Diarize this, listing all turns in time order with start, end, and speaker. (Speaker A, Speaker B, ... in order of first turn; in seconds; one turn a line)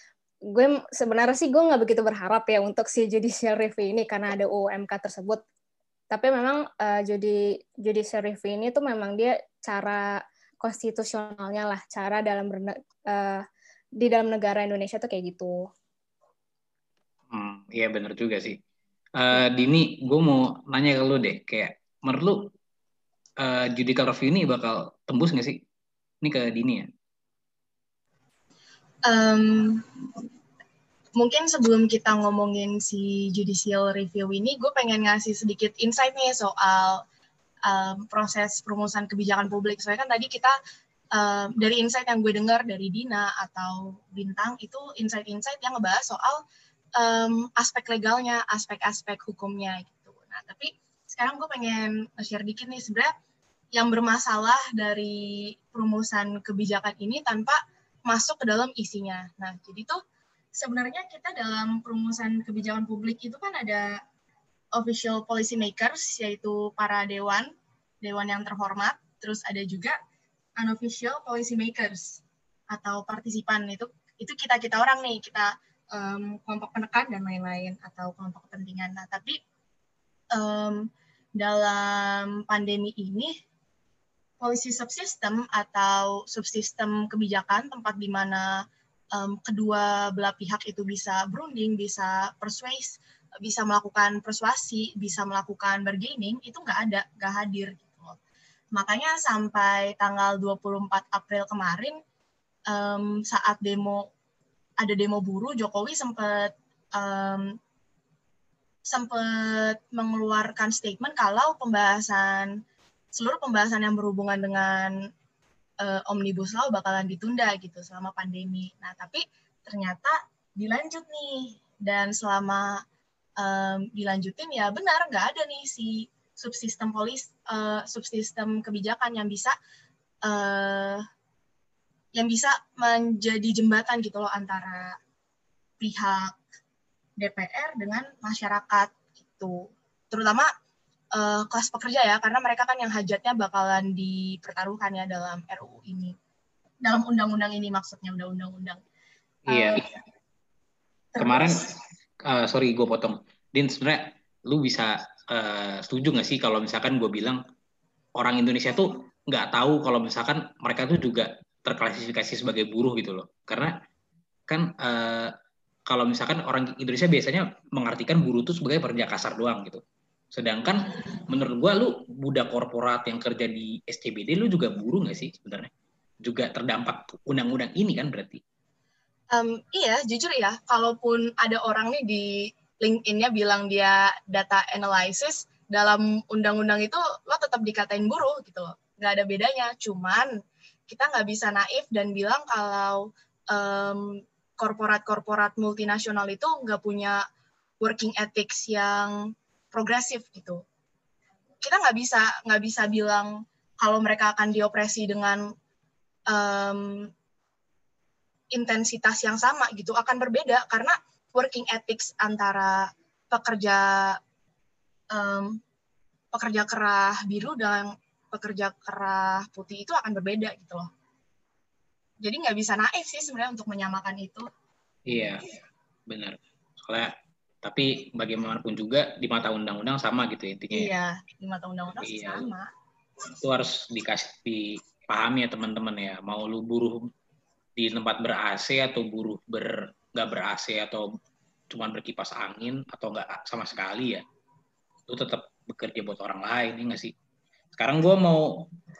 Speaker A: 0.5-5.4
Speaker A: 6.1-10.0
Speaker A: 10.6-13.4
Speaker A: 14.0-15.6
Speaker B: 17.3-18.6
Speaker B: 19.2-22.5
Speaker B: 23.4-25.6
Speaker B: 26.2-26.9
Speaker C: 29.0-30.2
Speaker C: 31.1-37.0
Speaker C: 37.7-40.5
Speaker C: 41.1-46.4
Speaker C: 47.0-53.1
Speaker C: 53.7-60.0
Speaker C: 60.5-64.0
Speaker C: 64.7-70.0
Speaker C: 70.6-79.4
Speaker C: 80.3-83.3
Speaker C: 84.4-98.2
Speaker C: 98.7-102.0
Speaker C: 102.7-104.1
Speaker C: 104.8-107.6
Speaker C: 108.9-112.6
Speaker C: 113.1-115.1
Speaker C: 115.8-122.8
Speaker C: 123.4-129.6
Speaker C: 130.2-131.0
Speaker C: 132.1-135.0
Speaker C: 135.8-136.4
Speaker C: 137.2-140.5
Speaker C: 141.1-146.1
Speaker C: 146.8-148.8
Speaker B: 149.5-149.8
Speaker C: 149.5-150.0
Speaker C: 151.1-151.6
Speaker B: 151.2-151.6
Speaker B: 152.2-157.4
Speaker B: 158.2-163.7
Speaker B: 164.5-165.3
Speaker B: 165.9-169.8
Speaker B: 170.3-175.7
Speaker B: 176.2-178.4
Speaker C: 179.3-190.3
Speaker C: 190.9-197.2
Speaker C: 197.8-200.6
Speaker C: 201.6-205.5
Speaker C: 206.3-207.1
Speaker C: 208.5-214.2
Speaker C: 215.1-215.6
Speaker C: 216.3-220.9
Speaker C: 222.2-224.4
Speaker B: 225.1-225.5
Speaker B: 226.1-227.1
Speaker B: 227.6-230.9
Speaker C: 230.7-232.7
Speaker B: 232.0-232.4
Speaker B: 233.3-237.0
Speaker B: 237.8-241.0
Speaker B: 241.7-244.2
Speaker B: 245.1-247.1
Speaker B: 247.8-248.7